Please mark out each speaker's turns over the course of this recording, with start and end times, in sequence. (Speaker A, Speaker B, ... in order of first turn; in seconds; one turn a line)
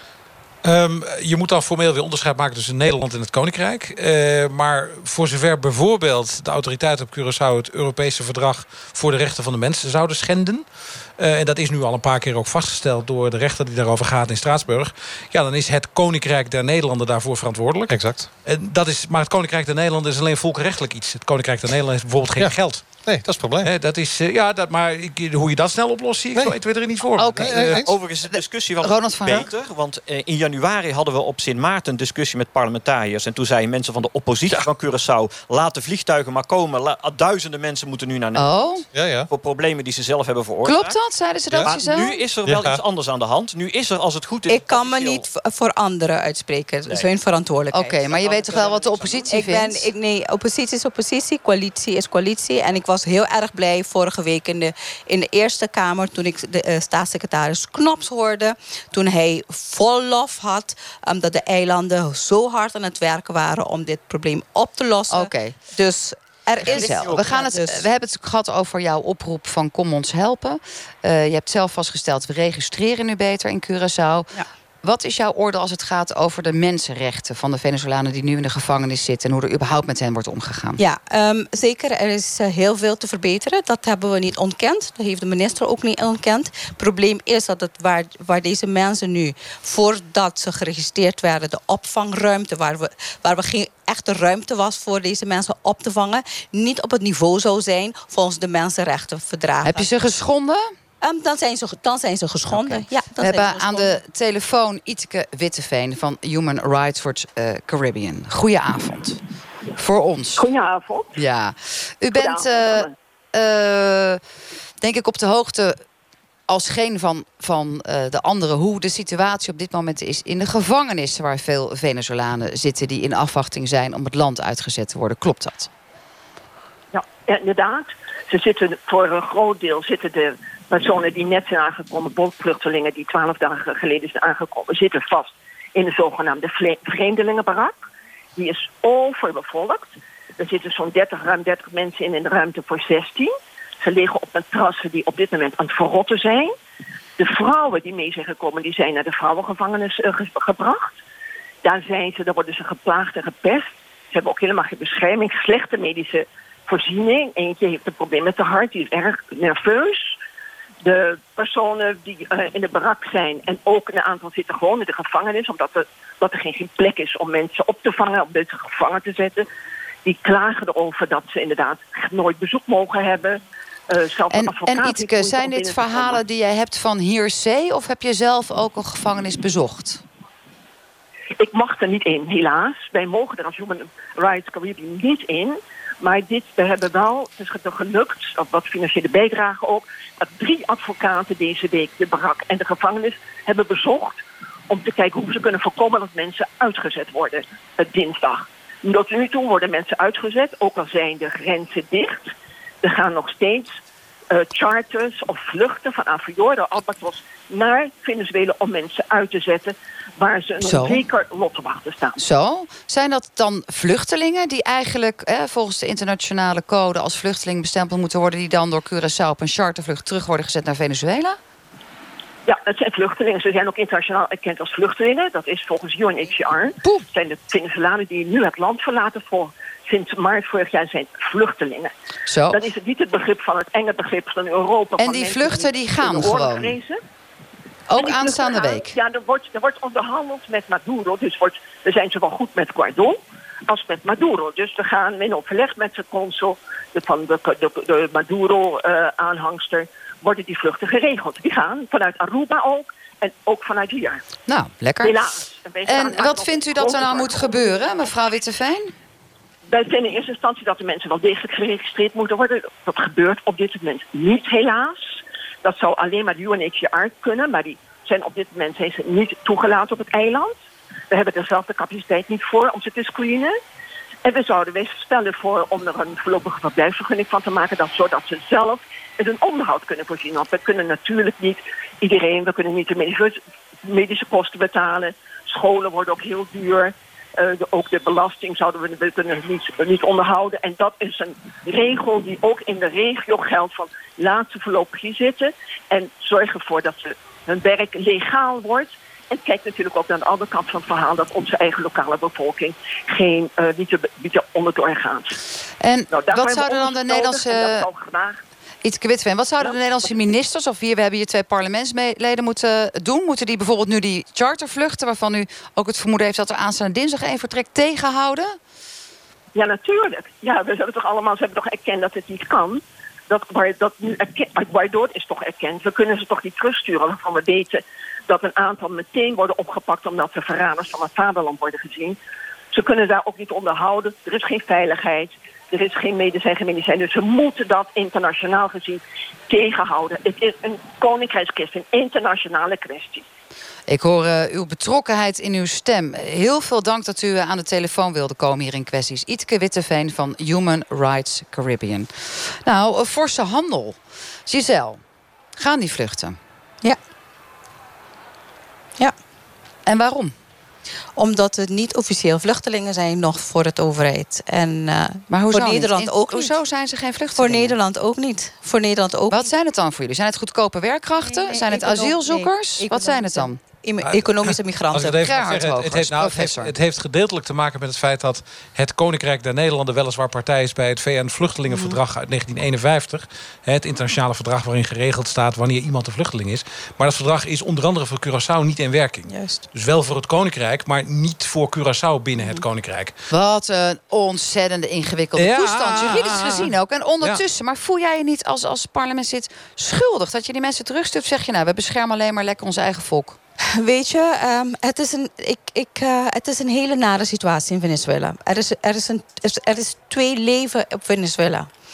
Speaker A: 0.6-10.7
Speaker A: 11.2-22.9
Speaker B: 17.9-18.3
Speaker B: 22.4-23.7
Speaker A: 23.6-27.9
Speaker C: 27.2-27.7
Speaker B: 27.5-27.9
Speaker D: 27.8-38.5
Speaker C: 28.8-29.5
Speaker C: 38.4-38.9
Speaker B: 38.9-39.3
Speaker D: 39.3-41.0
Speaker C: 40.6-42.2
Speaker D: 41.6-45.2
Speaker B: 42.5-42.8
Speaker E: 44.5-48.1
Speaker C: 47.7-49.9
Speaker D: 48.1-49.2
Speaker E: 49.3-67.8
Speaker C: 65.1-65.6
Speaker D: 66.7-67.4
Speaker C: 66.7-74.3
Speaker C: 74.8-80.8
Speaker E: 80.8-99.9
Speaker C: 99.6-100.6
Speaker E: 101.0-104.0
Speaker C: 102.5-109.2
Speaker C: 109.8-110.5
Speaker F: 110.4-111.1
Speaker C: 111.2-114.2
Speaker F: 112.2-112.9
Speaker C: 114.8-115.8
Speaker C: 116.5-125.7
Speaker F: 126.9-137.7
Speaker F: 138.4-146.5
Speaker F: 147.2-150.9
Speaker F: 151.6-160.1
Speaker F: 160.8-169.5
Speaker F: 170.1-176.2
Speaker C: 174.3-180.0
Speaker F: 181.4-202.3
Speaker F: 202.8-203.7
Speaker F: 204.3-212.2
Speaker C: 210.6-211.0
Speaker C: 212.2-221.4
Speaker F: 222.5-231.9
Speaker C: 232.3-232.6
Speaker F: 232.5-237.0
Speaker C: 235.0-236.8
Speaker C: 237.9-239.0
Speaker F: 238.0-243.2
Speaker F: 243.7-254.2
Speaker C: 254.5-255.2
Speaker F: 255.0-257.6
Speaker C: 255.9-258.9
Speaker F: 259.7-270.6
Speaker F: 271.1-273.6
Speaker F: 274.2-305.4
Speaker C: 305.8-307.9
Speaker F: 306.1-308.4
Speaker C: 308.8-318.6
Speaker F: 319.6-332.2
Speaker F: 332.7-343.2
Speaker C: 343.9-355.0
Speaker C: 355.6-356.4
Speaker C: 359.9-360.3
Speaker E: 361.2-366.6
Speaker C: 365.3-367.8
Speaker E: 367.4-369.5
Speaker C: 369.3-373.6
Speaker E: 371.2-375.2
Speaker A: 374.1-393.1
Speaker C: 375.2-376.7
Speaker E: 381.7-382.0
Speaker E: 389.3-389.6
Speaker C: 393.3-403.4
Speaker A: 395.4-397.4
Speaker E: 396.1-396.6
Speaker E: 403.7-411.7